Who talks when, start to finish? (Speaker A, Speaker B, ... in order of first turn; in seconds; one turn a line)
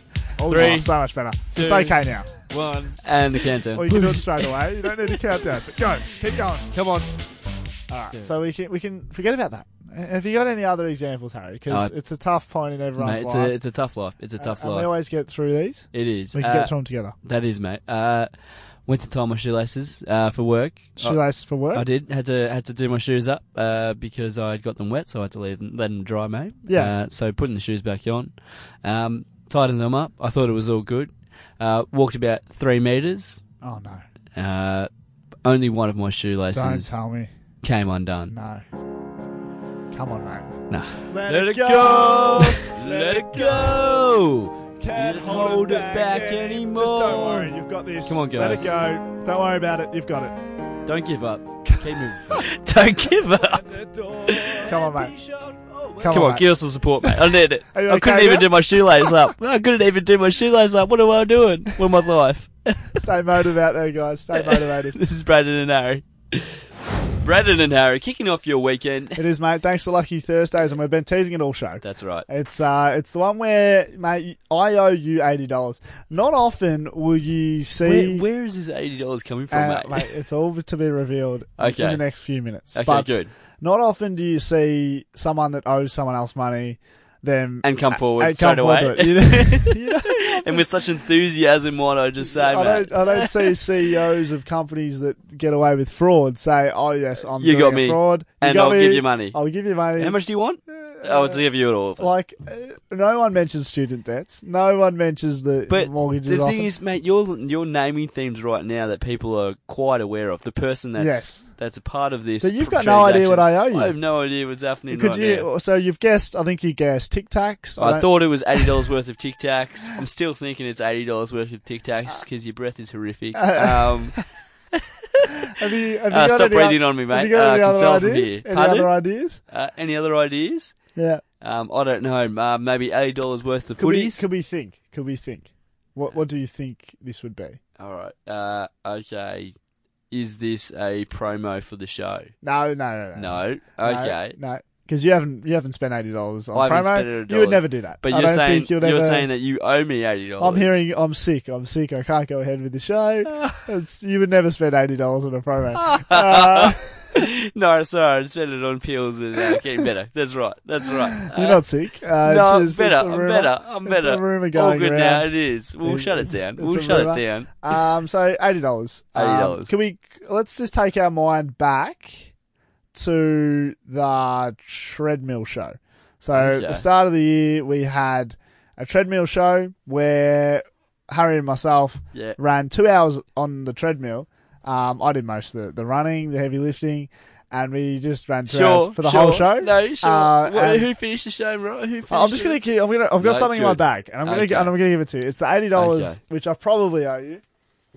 Speaker A: 0.4-2.3
Speaker B: 0.4-0.9
Speaker B: 1.5-4.5
Speaker A: 3.7-6.7
Speaker B: 6.7-7.2
Speaker A: 7.9-13.5
Speaker B: 13.0-14.9
Speaker A: 14.4-17.1
Speaker B: 15.9-18.3
Speaker B: 18.9-21.2
Speaker A: 21.0-21.9
Speaker B: 21.7-33.4
Speaker A: 26.6-26.9
Speaker A: 33.6-34.0
Speaker B: 34.4-34.9
Speaker B: 35.4-37.0
Speaker A: 36.5-37.3
Speaker B: 37.6-38.3
Speaker A: 38.3-38.6
Speaker A: 39.9-44.0
Speaker B: 40.7-47.5
Speaker A: 44.8-50.4
Speaker B: 48.0-48.8
Speaker B: 50.8-53.7
Speaker A: 53.1-55.1
Speaker B: 54.2-63.0
Speaker A: 56.0-56.5
Speaker A: 57.0-59.1
Speaker A: 62.9-65.0
Speaker B: 64.3-66.6
Speaker B: 67.2-69.2
Speaker A: 69.2-78.2
Speaker B: 71.8-72.3
Speaker B: 77.8-80.1
Speaker A: 79.5-90.7
Speaker B: 81.6-82.0
Speaker B: 82.7-83.3
Speaker B: 87.6-93.6
Speaker A: 92.2-101.4
Speaker B: 97.4-99.4
Speaker B: 100.0-102.1
Speaker A: 102.0-106.7
Speaker B: 105.7-115.5
Speaker A: 111.0-111.5
Speaker A: 112.4-113.9
Speaker A: 114.9-118.8
Speaker B: 117.8-124.2
Speaker A: 123.3-124.2
Speaker B: 124.7-125.3
Speaker A: 125.5-129.4
Speaker B: 126.1-128.9
Speaker B: 129.5-130.8
Speaker A: 130.9-131.2
Speaker B: 131.4-134.2
Speaker A: 133.8-137.6
Speaker B: 137.8-139.5
Speaker B: 140.1-142.3
Speaker A: 142.4-149.3
Speaker B: 143.1-144.4
Speaker B: 146.5-150.8
Speaker A: 150.4-157.0
Speaker B: 153.3-153.6
Speaker B: 155.7-161.6
Speaker A: 161.2-172.3
Speaker B: 162.2-167.8
Speaker B: 169.1-169.7
Speaker A: 172.9-190.9
Speaker B: 176.3-176.8
Speaker B: 188.5-192.6
Speaker A: 192.1-197.4
Speaker B: 193.2-194.8
Speaker B: 195.7-196.2